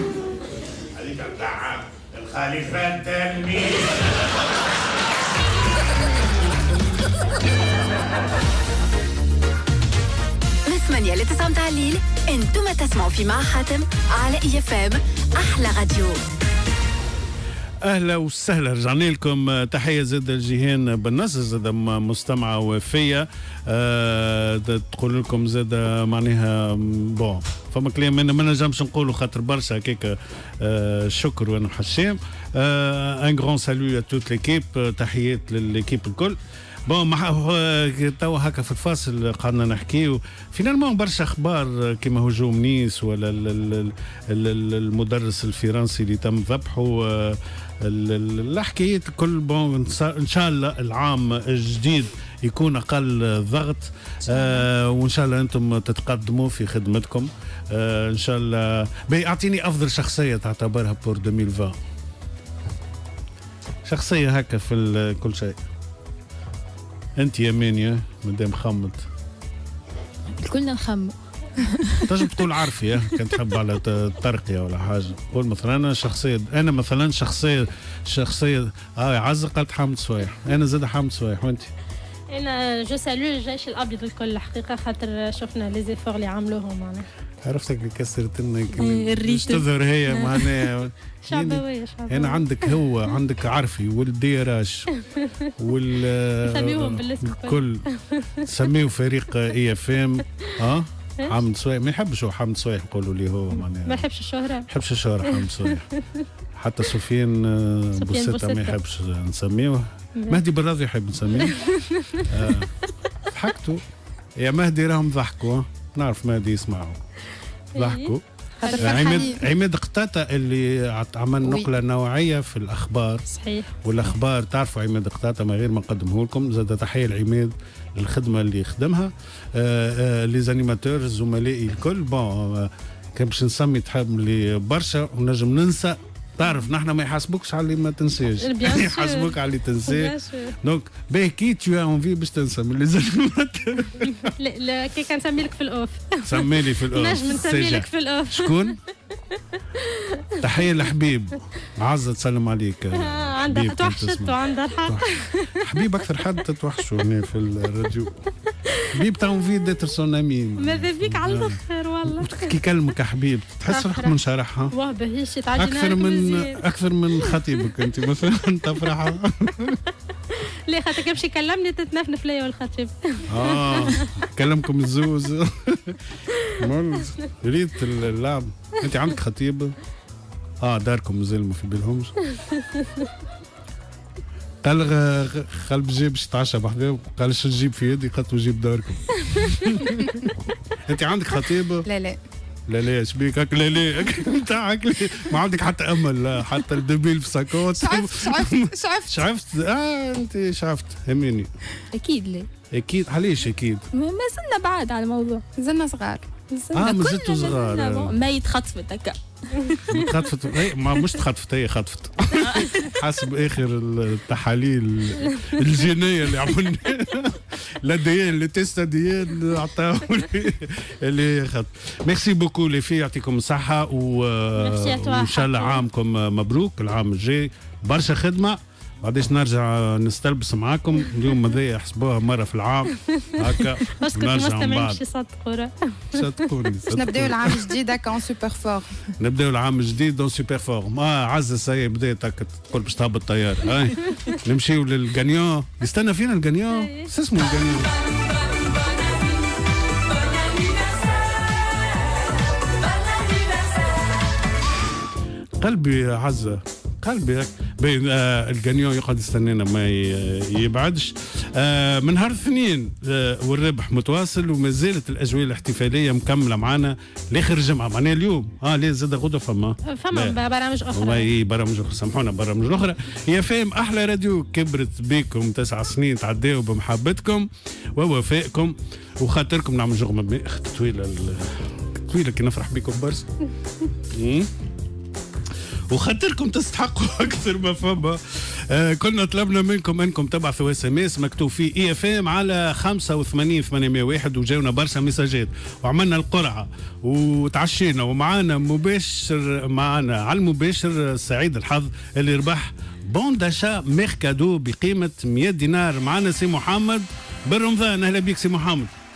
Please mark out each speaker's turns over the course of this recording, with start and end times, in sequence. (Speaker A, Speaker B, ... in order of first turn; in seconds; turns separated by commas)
Speaker A: 0.9-4.0, Speaker B: 10.7-16.2, Speaker A: 17.8-61.8, Speaker A: 63.9-65.6, Speaker A: 67.2-69.0, Speaker C: 70.4-72.2, Speaker A: 72.0-81.7, Speaker D: 82.3-87.0, Speaker A: 87.4-94.9, Speaker C: 88.8-89.6, Speaker D: 91.3-92.8, Speaker D: 94.9-95.5, Speaker A: 95.6-97.8, Speaker D: 96.4-98.5, Speaker A: 98.4-104.1, Speaker D: 103.8-104.7, Speaker A: 104.7-105.8, Speaker D: 105.2-106.2, Speaker A: 106.5-111.6, Speaker D: 108.0-108.8, Speaker D: 111.4-112.5, Speaker A: 112.2-112.7, Speaker A: 113.3-113.8, Speaker A: 114.4-117.0, Speaker A: 117.8-118.2, Speaker D: 117.8-119.3, Speaker E: 118.6-119.4, Speaker A: 118.8-123.2, Speaker D: 123.3-123.8, Speaker A: 123.8-144.3, Speaker D: 138.4-139.3, Speaker D: 139.8-140.5, Speaker D: 144.0-148.7, Speaker A: 146.2-148.8, Speaker D: 149.3-150.3, Speaker A: 150.4-158.2, Speaker D: 152.9-155.6, Speaker A: 158.9-164.7, Speaker D: 160.6-162.5, Speaker D: 163.7-164.2, Speaker D: 164.7-166.6, Speaker A: 165.6-169.8, Speaker D: 170.3-174.1, Speaker A: 173.3-179.8, Speaker A: 180.6-182.1, Speaker D: 182.3-183.1, Speaker A: 184.6-190.3, Speaker D: 189.3-189.6, Speaker A: 190.8-191.9, Speaker E: 191.8-192.2, Speaker A: 192.7-201.5, Speaker E: 197.7-199.2, Speaker C: 201.9-202.5, Speaker A: 202.7-203.8, Speaker C: 203.9-205.4, Speaker E: 205.6-206.3, Speaker C: 206.5-210.1, Speaker A: 206.7-208.1, Speaker A: 209.9-235.0, Speaker C: 212.4-212.9, Speaker D: 224.6-225.8, Speaker D: 233.1-236.5, Speaker A: 236.1-237.6, Speaker E: 236.9-239.0, Speaker A: 239.2-247.9, Speaker D: 246.7-247.1, Speaker A: 255.6-270.4, Speaker D: 269.9-271.3, Speaker A: 270.9-283.3, Speaker A: 284.1-284.5, Speaker A: 285.9-308.9